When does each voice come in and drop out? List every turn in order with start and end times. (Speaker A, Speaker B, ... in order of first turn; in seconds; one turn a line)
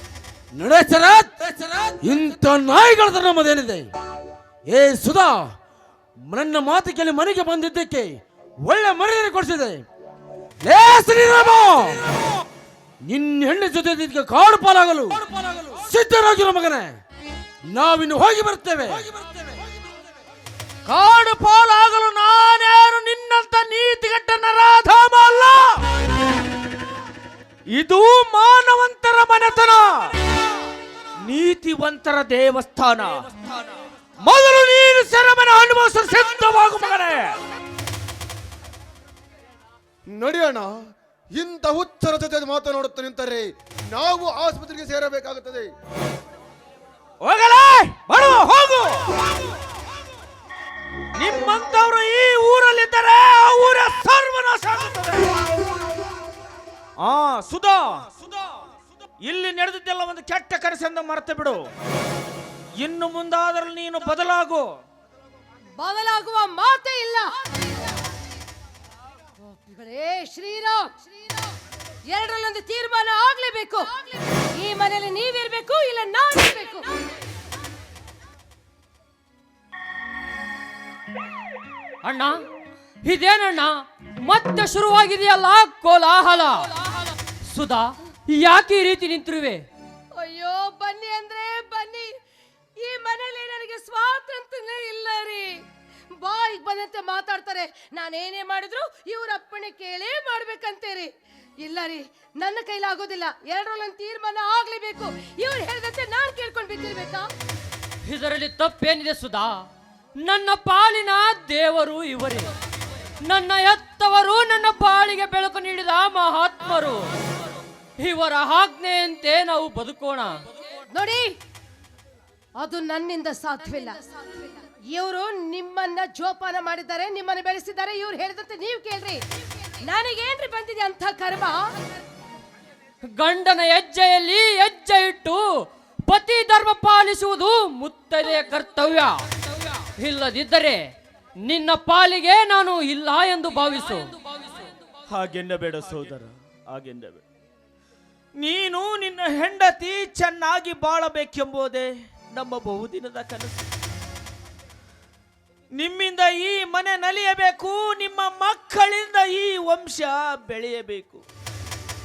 Speaker A: 0.5-3.9
Speaker A: 4.7-5.5
Speaker A: 6.3-9.8
Speaker A: 10.6-12.0
Speaker A: 13.1-17.0
Speaker A: 17.7-19.3
Speaker B: 20.9-25.8
Speaker B: 27.7-30.1
Speaker B: 31.2-37.4
Speaker C: 40.1-40.7
Speaker C: 41.3-45.7
Speaker B: 47.2-49.1
Speaker B: 51.1-55.4
Speaker B: 57.0-58.1
Speaker B: 59.2-61.7
Speaker B: 62.8-64.8
Speaker D: 65.8-67.3
Speaker D: 69.5-71.0
Speaker D: 72.1-76.9
Speaker E: 82.0-82.4
Speaker E: 83.0-86.7
Speaker E: 87.5-89.6
Speaker D: 90.2-92.1
Speaker D: 92.8-95.6
Speaker D: 96.2-101.1
Speaker D: 101.6-107.3
Speaker E: 108.0-109.6
Speaker E: 110.2-112.5
Speaker E: 113.2-117.1
Speaker E: 118.0-120.4
Speaker D: 120.9-121.4
Speaker D: 122.6-129.2
Speaker D: 129.8-131.6
Speaker E: 133.1-135.4
Speaker E: 136.1-139.2
Speaker E: 140.0-140.8
Speaker E: 141.4-144.4
Speaker B: 145.1-147.2
Speaker B: 148.4-153.7
Speaker B: 155.7-161.2